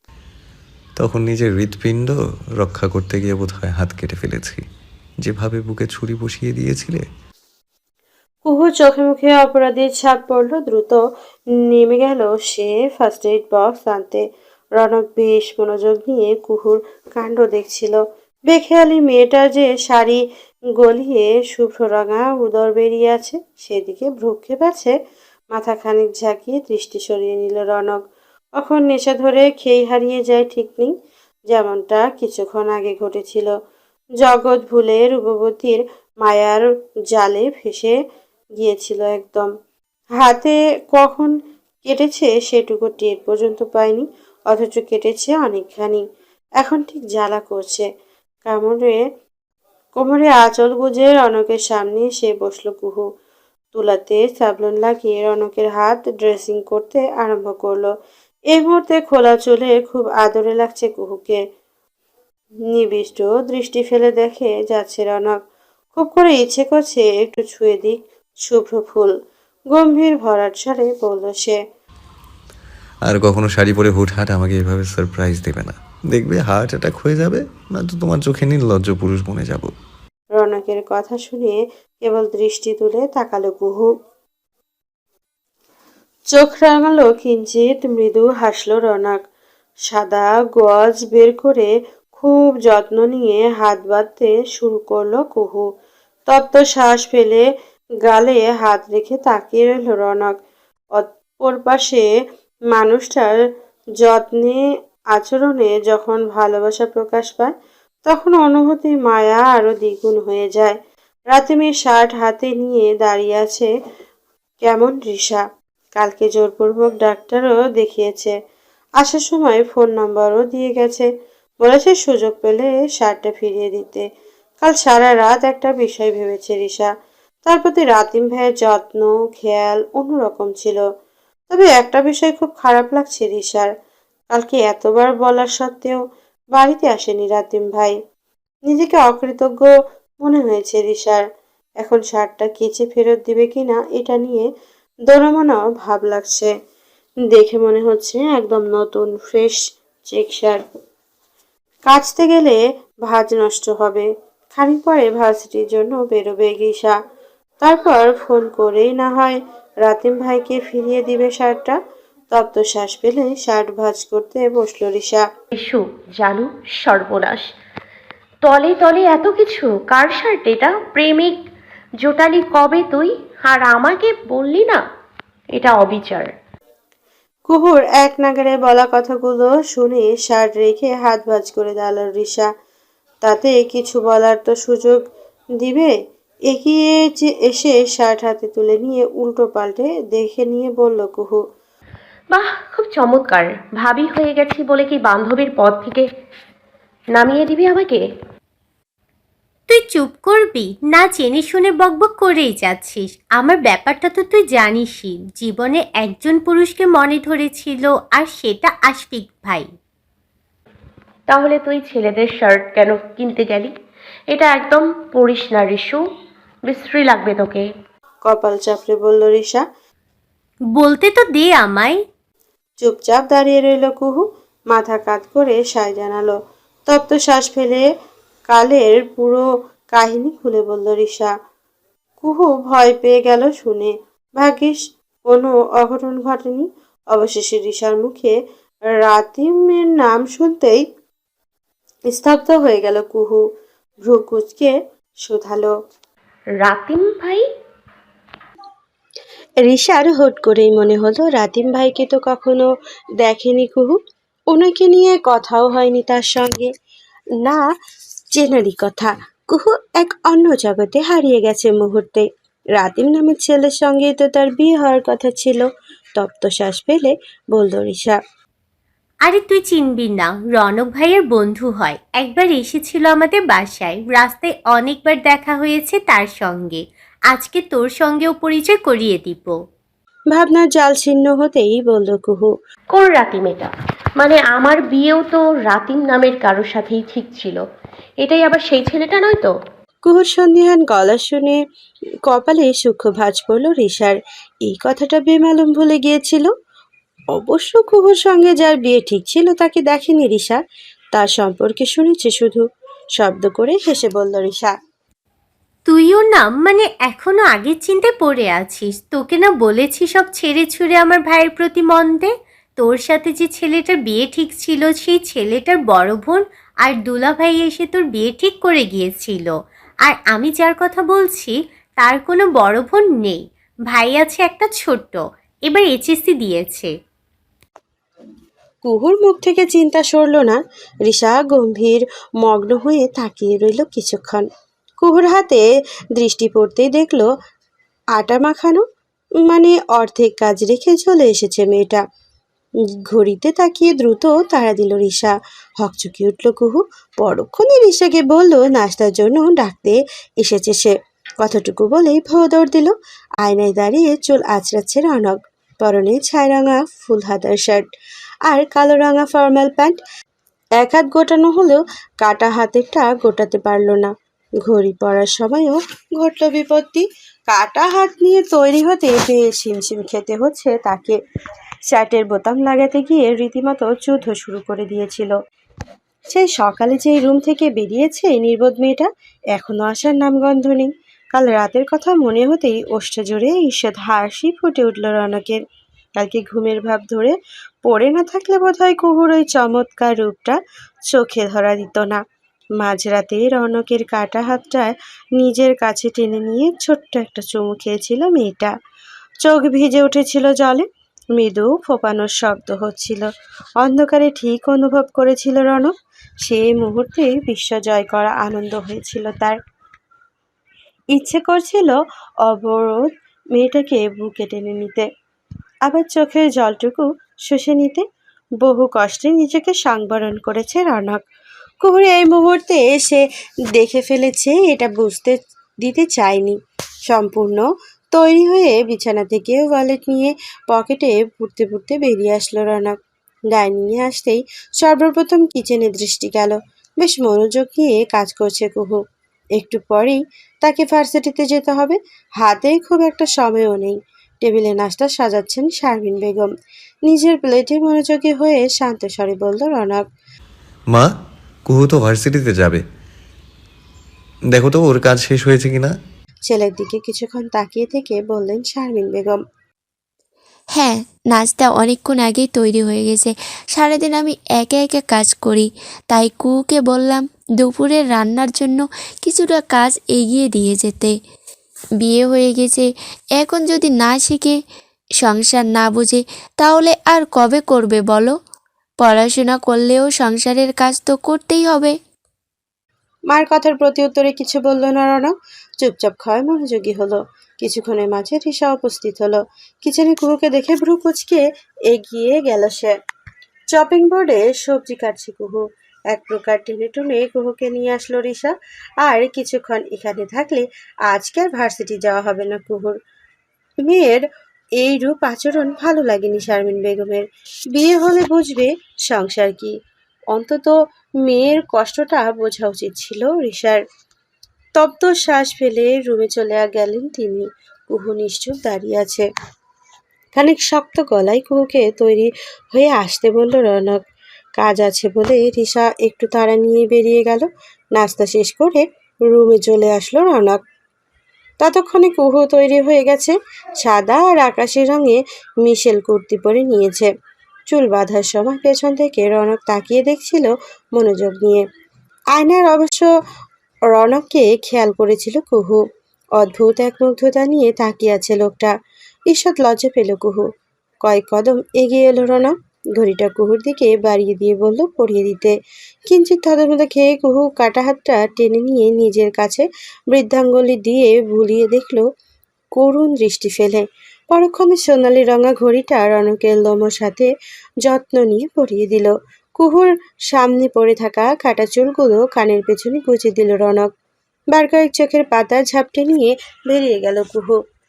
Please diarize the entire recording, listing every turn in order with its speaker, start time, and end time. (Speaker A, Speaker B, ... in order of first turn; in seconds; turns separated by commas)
Speaker A: 1.0-4.6, Speaker A: 5.2-7.0, Speaker B: 8.4-11.0, Speaker B: 11.6-14.2, Speaker B: 14.8-20.2, Speaker B: 20.8-24.9, Speaker B: 25.5-28.0, Speaker B: 28.6-30.9, Speaker B: 31.5-33.5, Speaker B: 34.2-37.9, Speaker B: 38.6-39.5, Speaker B: 40.2-41.3, Speaker B: 41.8-46.0, Speaker B: 46.6-47.8, Speaker B: 48.5-49.0, Speaker B: 50.0-53.0, Speaker B: 53.7-57.9, Speaker B: 58.5-61.4, Speaker B: 62.7-65.4, Speaker B: 65.9-69.1, Speaker B: 69.7-71.6, Speaker A: 73.0-79.7, Speaker B: 80.3-83.9, Speaker B: 86.3-89.2, Speaker B: 89.9-95.6, Speaker B: 96.3-97.4, Speaker B: 98.0-100.3, Speaker B: 100.9-102.0, Speaker B: 102.7-103.3, Speaker B: 104.0-104.6, Speaker B: 105.1-107.5, Speaker B: 108.0-110.8, Speaker B: 111.3-113.7, Speaker B: 114.6-115.4, Speaker B: 116.0-118.3, Speaker B: 119.0-121.1, Speaker B: 121.6-124.0, Speaker B: 124.6-126.9, Speaker B: 127.5-130.8, Speaker B: 131.5-133.7, Speaker B: 134.3-136.0, Speaker B: 136.5-137.9, Speaker B: 138.7-141.2, Speaker B: 141.8-144.4, Speaker B: 145.1-146.5, Speaker B: 147.3-150.6, Speaker B: 151.9-156.9, Speaker B: 157.6-161.8, Speaker B: 162.3-165.2, Speaker C: 165.6-167.4, Speaker C: 168.4-171.4, Speaker C: 172.0-174.8, Speaker C: 175.5-176.3, Speaker B: 177.5-182.5, Speaker B: 183.2-185.0, Speaker B: 185.6-185.9, Speaker B: 186.5-191.4, Speaker C: 192.3-196.0, Speaker C: 197.2-198.0, Speaker D: 199.7-209.7, Speaker C: 211.3-213.7, Speaker C: 214.3-216.0, Speaker C: 216.7-217.7, Speaker B: 218.2-219.6, Speaker D: 220.8-222.0, Speaker B: 222.8-226.3, Speaker B: 226.9-227.8, Speaker B: 228.5-231.3, Speaker B: 232.2-238.3, Speaker B: 239.0-240.8, Speaker B: 242.1-243.4, Speaker B: 244.0-244.7, Speaker B: 245.2-245.7, Speaker C: 246.6-247.4, Speaker B: 249.6-252.7, Speaker B: 253.2-254.0, Speaker B: 254.5-256.7, Speaker B: 257.4-257.7, Speaker B: 258.4-265.6, Speaker B: 266.2-268.2, Speaker D: 269.2-279.6, Speaker B: 280.3-282.5, Speaker C: 282.9-287.6, Speaker C: 288.2-289.5, Speaker B: 290.1-291.6, Speaker B: 292.3-296.5, Speaker B: 297.4-300.6, Speaker B: 301.1-302.6, Speaker B: 303.2-304.7, Speaker D: 305.9-319.5, Speaker D: 320.0-326.9, Speaker B: 328.8-334.4, Speaker B: 335.0-335.6, Speaker B: 336.1-337.3, Speaker B: 338.1-338.8, Speaker B: 339.4-342.0, Speaker B: 343.1-357.8, Speaker B: 358.5-360.0, Speaker B: 360.8-364.1, Speaker B: 364.6-371.2, Speaker B: 371.9-375.3, Speaker B: 376.3-385.6, Speaker B: 386.1-390.6, Speaker B: 391.1-392.2, Speaker B: 392.8-398.7, Speaker B: 399.4-403.3, Speaker B: 403.8-405.9, Speaker B: 406.4-409.6, Speaker B: 411.1-415.1, Speaker B: 415.8-418.0, Speaker B: 418.6-421.2, Speaker B: 421.8-426.6, Speaker B: 427.1-433.0, Speaker B: 433.5-439.0, Speaker B: 439.6-446.5, Speaker B: 447.1-450.0, Speaker A: 451.7-452.8, Speaker A: 454.5-455.9, Speaker B: 456.5-459.4, Speaker E: 460.7-471.2, Speaker E: 472.0-474.6, Speaker E: 475.2-478.4, Speaker E: 479.0-482.0, Speaker B: 483.3-492.9, Speaker B: 493.7-503.0, Speaker B: 503.8-504.2, Speaker B: 504.8-509.7, Speaker B: 510.3-513.8, Speaker B: 514.8-519.2, Speaker B: 520.3-524.0, Speaker B: 524.6-530.6, Speaker B: 531.6-537.1, Speaker B: 537.7-541.6, Speaker B: 542.3-543.1, Speaker B: 543.9-545.8, Speaker B: 546.4-548.7, Speaker B: 549.3-550.5, Speaker B: 551.0-555.5, Speaker B: 556.1-562.0, Speaker B: 562.8-567.3, Speaker B: 567.8-573.9, Speaker B: 574.5-577.5